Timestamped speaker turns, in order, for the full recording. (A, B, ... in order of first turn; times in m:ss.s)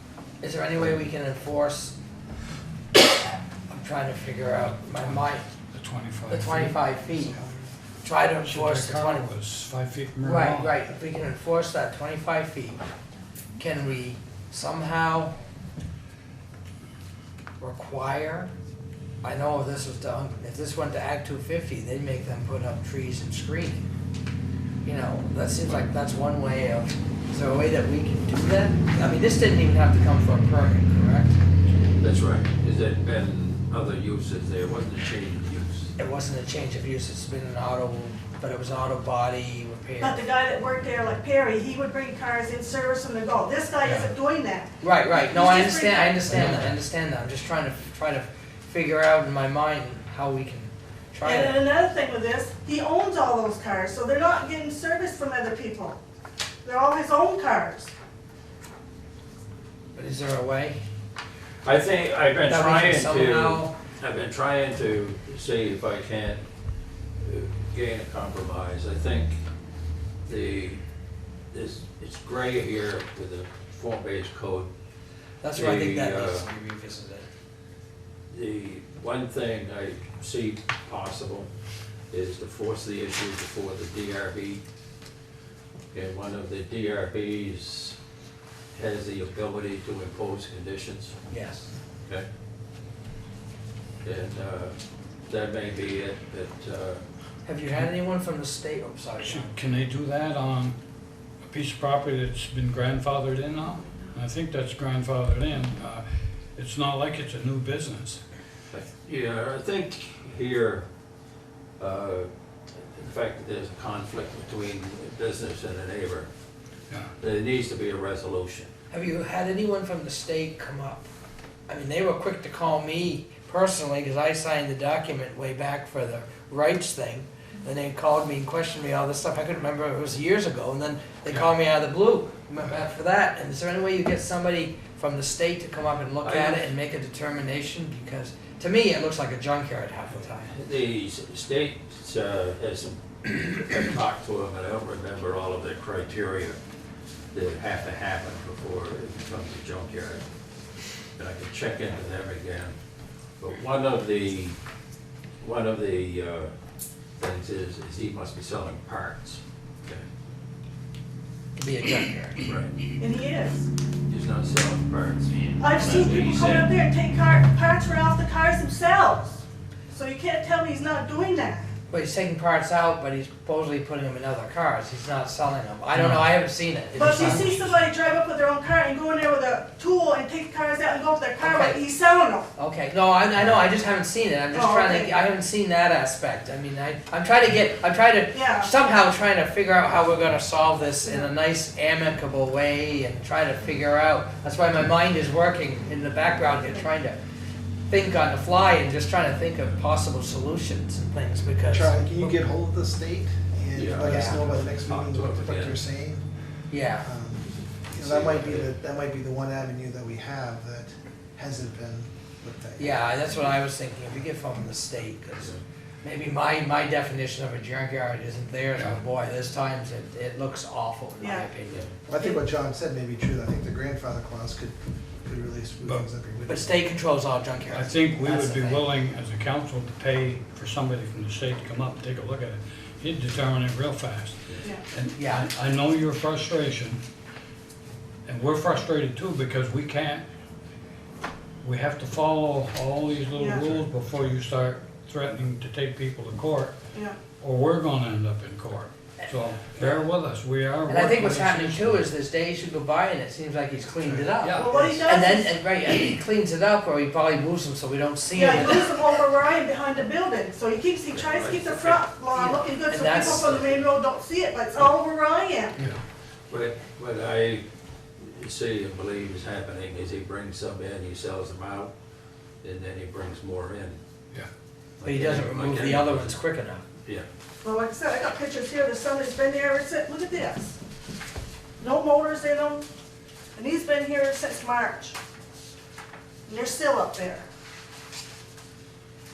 0:00.4-0:02.0 A
0:03.7-0:05.4 A
0:05.7-0:07.3 B
0:06.3-0:07.4 A
0:07.4-0:07.6 C
0:08.0-0:09.2 A
0:08.4-0:10.8 B
0:10.2-0:12.8 A
0:13.6-0:15.4 A
0:17.6-0:18.5 A
0:19.2-0:23.9 A
0:24.8-0:31.4 A
0:32.0-0:35.9 D
0:36.0-0:40.2 A
0:40.0-0:46.4 E
0:44.8-0:51.6 A
0:46.3-0:46.8 B
0:51.2-0:56.0 E
0:56.6-0:57.9 E
1:00.0-1:00.8 A
1:01.6-1:06.4 D
1:02.5-1:03.7 A
1:07.2-1:09.4 D
1:10.3-1:10.8 D
1:11.5-1:14.7 D
1:15.4-1:17.3 A
1:15.5-1:16.5 D
1:18.3-1:21.5 D
1:22.1-1:24.6 D
1:25.9-1:28.0 D
1:28.8-1:31.2 D
1:31.3-1:31.7 A
1:34.0-1:34.8 D
1:35.3-1:37.0 D
1:37.4-1:39.6 A
1:39.2-1:40.8 B
1:41.4-1:48.2 B
1:48.7-1:50.9 D
1:51.8-1:56.3 D
1:57.2-1:58.7 D
1:58.9-2:01.0 A
2:01.7-2:20.5 A
2:16.2-2:16.7 D
2:20.5-2:26.6 D
2:27.3-2:30.2 D
2:31.2-2:32.8 D
2:33.4-2:34.6 D
2:35.4-2:36.5 D
2:37.2-2:40.1 D
2:41.6-2:42.4 A
2:42.4-2:42.8 D
2:43.0-2:43.7 E
2:44.1-2:46.7 D
2:45.6-2:51.7 E
2:51.9-2:57.8 A
2:56.0-2:56.2 B
2:57.0-3:02.5 E
3:01.4-3:01.8 A
3:02.6-3:17.2 A
3:04.5-3:05.2 E
3:08.3-3:08.7 E
3:16.5-3:16.9 E
3:17.9-3:22.4 A
3:21.6-3:26.2 C
3:23.7-3:25.8 D
3:24.0-3:24.5 A
3:26.7-3:27.1 A
3:27.0-3:33.1 C
3:27.9-3:28.7 D
3:32.8-3:42.0 A
3:35.4-3:35.6 D
3:41.2-3:41.5 E
3:42.1-3:46.7 C
3:42.1-3:42.4 E
3:46.5-3:48.9 A
3:47.7-3:57.0 B
3:55.0-3:55.5 A
3:58.3-4:00.3 B
4:01.6-4:06.8 B
4:03.3-4:03.7 E
4:06.9-4:07.2 E
4:07.4-4:12.1 B
4:10.9-4:18.9 A
4:14.0-4:14.8 B
4:14.5-4:15.5 E
4:18.3-4:25.8 E
4:21.1-4:22.0 D
4:22.3-4:23.6 A
4:23.4-4:23.8 D
4:26.5-4:27.7 D
4:28.2-4:31.9 D
4:32.6-4:34.0 D
4:35.0-4:36.4 D
4:35.0-4:36.8 A
4:37.6-4:40.8 E
4:41.8-4:42.8 E
4:43.6-4:45.2 E
4:46.5-4:47.5 E